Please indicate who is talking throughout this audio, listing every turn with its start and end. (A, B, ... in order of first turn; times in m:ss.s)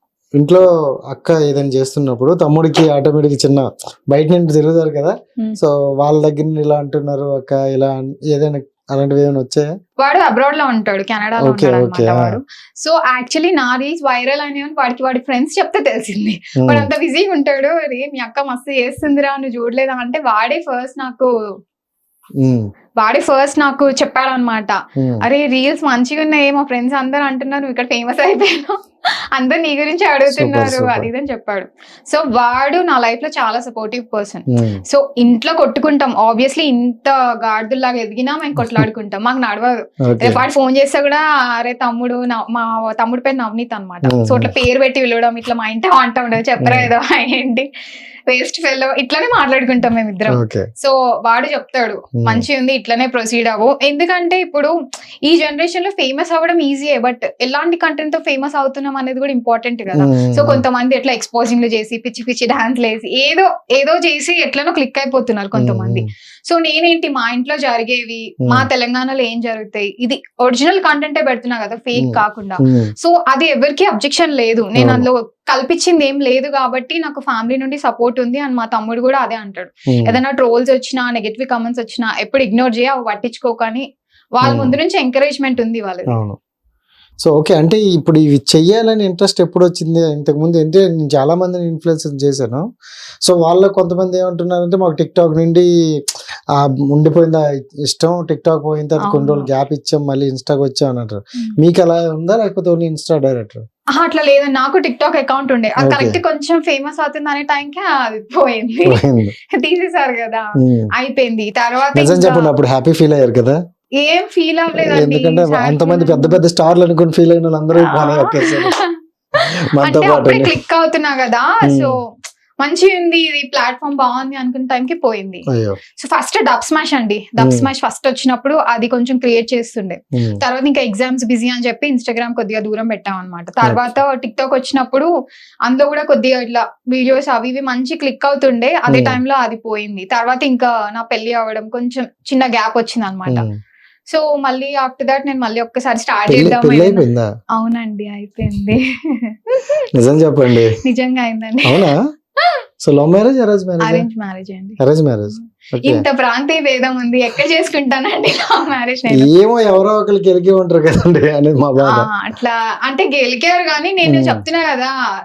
0:00.4-0:09.7 A
0:10.0-0:21.3 B
0:11.4-0:12.4 A
0:16.6-0:16.9 A
0:22.4-0:22.7 A
0:23.0-0:28.8 B
0:25.0-0:25.2 A
0:29.3-0:47.7 B
0:30.3-0:31.1 A
0:34.5-0:34.8 A
0:40.1-0:40.4 A
0:44.0-0:44.6 A
0:46.6-0:46.9 A
0:48.3-0:54.7 B
0:50.3-0:50.7 A
0:52.2-0:52.4 A
0:55.2-1:26.1 B
0:59.9-1:00.6 A
1:05.6-1:06.1 A
1:12.0-1:12.9 A
1:14.8-1:15.0 A
1:19.9-1:20.2 A
1:24.4-1:24.8 A
1:26.1-1:26.4 A
1:27.2-1:32.6 A
1:33.2-1:35.7 A
1:36.6-1:43.6 A
1:39.0-1:39.5 B
1:43.9-1:52.5 B
1:45.8-1:46.2 A
1:48.8-1:49.3 A
1:50.6-1:50.9 A
1:52.0-1:53.6 A
1:54.0-1:56.4 B
1:54.7-1:58.7 A
1:57.8-1:59.0 B
1:59.4-2:00.6 A
1:59.8-2:01.9 B
2:01.6-2:01.9 A
2:02.6-2:05.4 B
2:05.5-2:05.8 A
2:06.0-2:15.1 B
2:07.4-2:07.7 A
2:13.6-2:13.9 A
2:15.6-2:23.5 B
2:18.9-2:19.2 A
2:23.3-2:23.6 A
2:24.1-2:27.1 B
2:26.3-2:27.2 A
2:27.6-2:29.8 B
2:29.9-2:30.8 A
2:30.8-2:32.6 B
2:31.6-2:32.0 A
2:32.8-2:34.0 A
2:33.8-2:34.8 B
2:34.8-2:36.0 A
2:35.4-2:39.3 B
2:39.1-2:42.1 A
2:41.8-2:44.9 B
2:44.0-2:44.4 A